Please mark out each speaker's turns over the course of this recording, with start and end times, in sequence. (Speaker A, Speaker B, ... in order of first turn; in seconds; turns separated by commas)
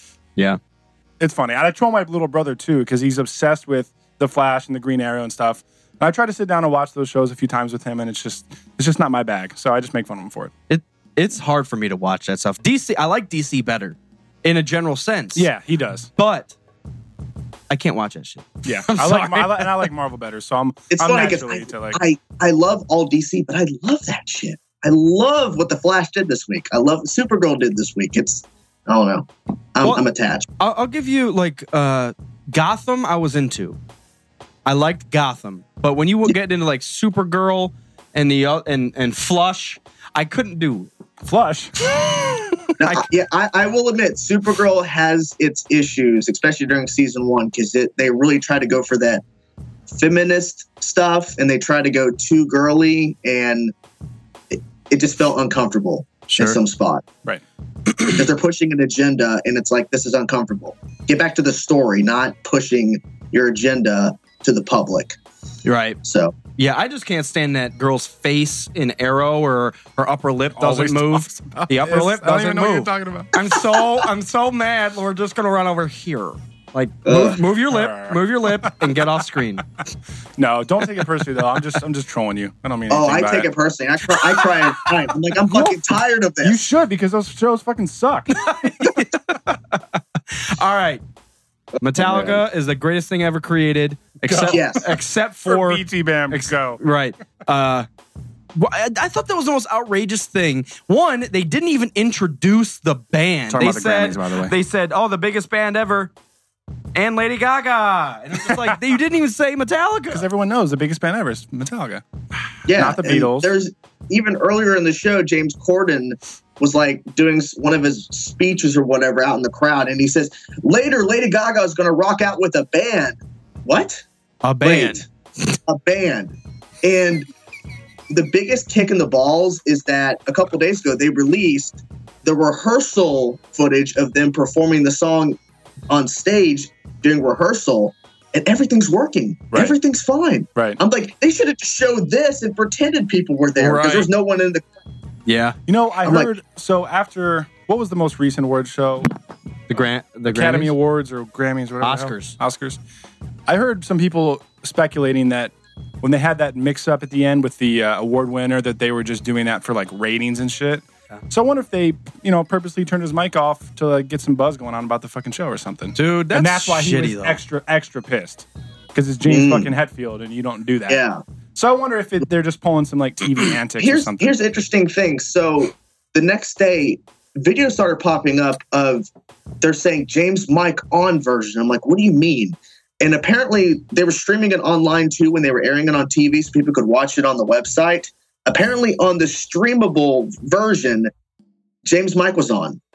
Speaker A: 1.2-10.5, Speaker B: 10.7-15.5, Speaker A: 15.3-16.1, Speaker B: 16.2-16.6, Speaker B: 17.7-19.9, Speaker A: 18.6-22.0, Speaker C: 20.9-30.5, Speaker B: 30.6-33.8, Speaker B: 34.6-40.9, Speaker A: 41.2-42.3, Speaker C: 42.8-49.2, Speaker C: 49.9-53.7, Speaker C: 54.5-57.0, Speaker B: 56.3-56.6, Speaker C: 58.1-65.2, Speaker B: 65.7-79.7, Speaker C: 66.0-66.4, Speaker A: 70.5-73.9, Speaker C: 77.0-77.4, Speaker A: 77.7-79.0, Speaker A: 80.4-83.5, Speaker C: 82.9-86.6, Speaker A: 85.5-85.8, Speaker A: 86.4-89.0, Speaker B: 88.4-91.0, Speaker B: 91.8-97.9, Speaker C: 92.0-92.4, Speaker A: 94.3-94.7, Speaker C: 94.5-94.9, Speaker A: 95.5-96.8, Speaker B: 98.5-106.1, Speaker A: 103.5-104.5, Speaker B: 107.0-110.3, Speaker A: 110.1-112.0, Speaker C: 112.7-124.0, Speaker A: 112.8-113.5, Speaker B: 124.4-125.0, Speaker C: 124.6-125.1, Speaker C: 125.7-127.3, Speaker C: 128.1-135.4, Speaker C: 135.9-144.7, Speaker A: 140.6-140.8, Speaker B: 143.6-144.1, Speaker B: 145.3-145.6, Speaker A: 145.7-149.1, Speaker C: 146.0-146.3, Speaker B: 149.7-150.7, Speaker A: 150.3-152.8, Speaker B: 151.8-152.4, Speaker A: 153.5-171.0, Speaker B: 165.9-167.4, Speaker C: 169.3-169.7, Speaker C: 170.9-171.2, Speaker A: 171.6-174.4, Speaker C: 173.8-179.1, Speaker C: 179.6-191.1, Speaker C: 191.8-192.8